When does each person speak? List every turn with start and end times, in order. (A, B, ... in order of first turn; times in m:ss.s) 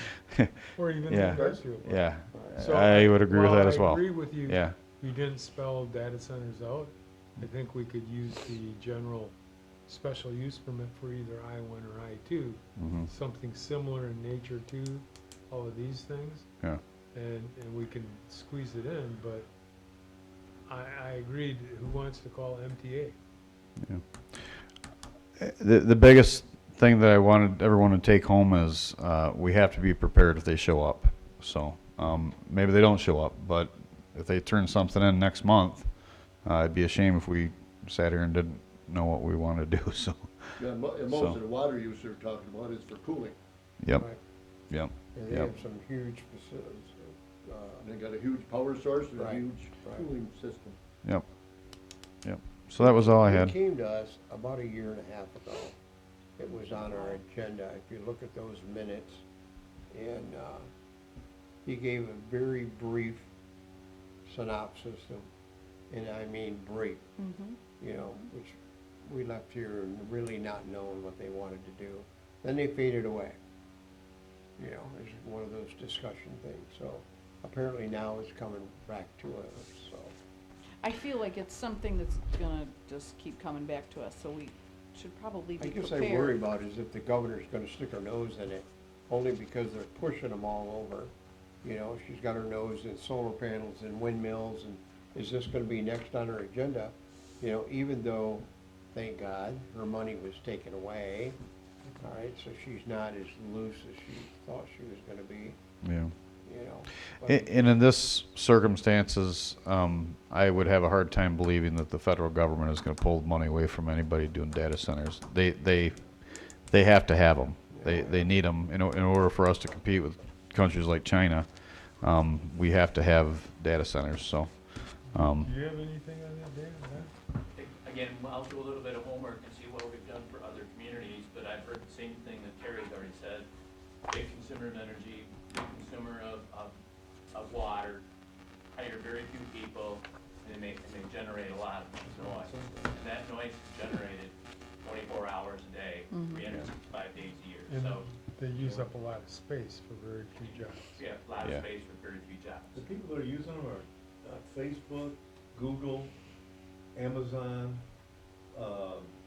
0:00.7-0:09.4 A
0:01.0-0:04.8 B
0:09.9-0:16.6 A
0:12.8-0:13.1 B
0:17.1-0:19.5 A
0:20.7-0:23.2 A
0:23.8-0:24.7 B
0:25.4-0:41.4 B
0:40.6-0:43.4 C
0:43.8-0:44.1 B
0:44.7-0:45.5 B
0:45.1-0:47.8 D
0:47.8-0:50.8 C
0:49.1-0:50.1 D
0:52.2-0:53.5 B
0:53.2-0:55.8 D
0:56.4-0:59.2 D
0:59.9-1:00.7 D
1:01.6-1:03.3 D
1:04.2-1:05.2 D
1:05.9-1:07.0 D
1:07.2-1:07.6 E
1:07.8-1:13.4 D
1:14.6-1:20.2 D
1:20.8-1:26.4 E
1:25.6-1:31.1 D
1:31.6-1:41.4 D
1:42.0-1:45.6 D
1:45.8-1:46.1 B
1:46.4-1:47.6 D
1:47.1-2:05.5 B
1:57.7-1:58.2 D
2:05.1-2:07.1 A
2:07.5-2:13.5 F
2:14.1-2:16.7 F
2:17.3-2:18.0 F
2:18.7-2:28.0 F
2:22.0-2:23.0 G
2:26.1-2:26.4 E
2:27.7-2:31.0 A
2:28.6-2:28.9 G
2:31.0-2:32.8 F
2:32.7-2:36.1 G
2:36.9-2:37.8 G
2:38.5-2:39.1 G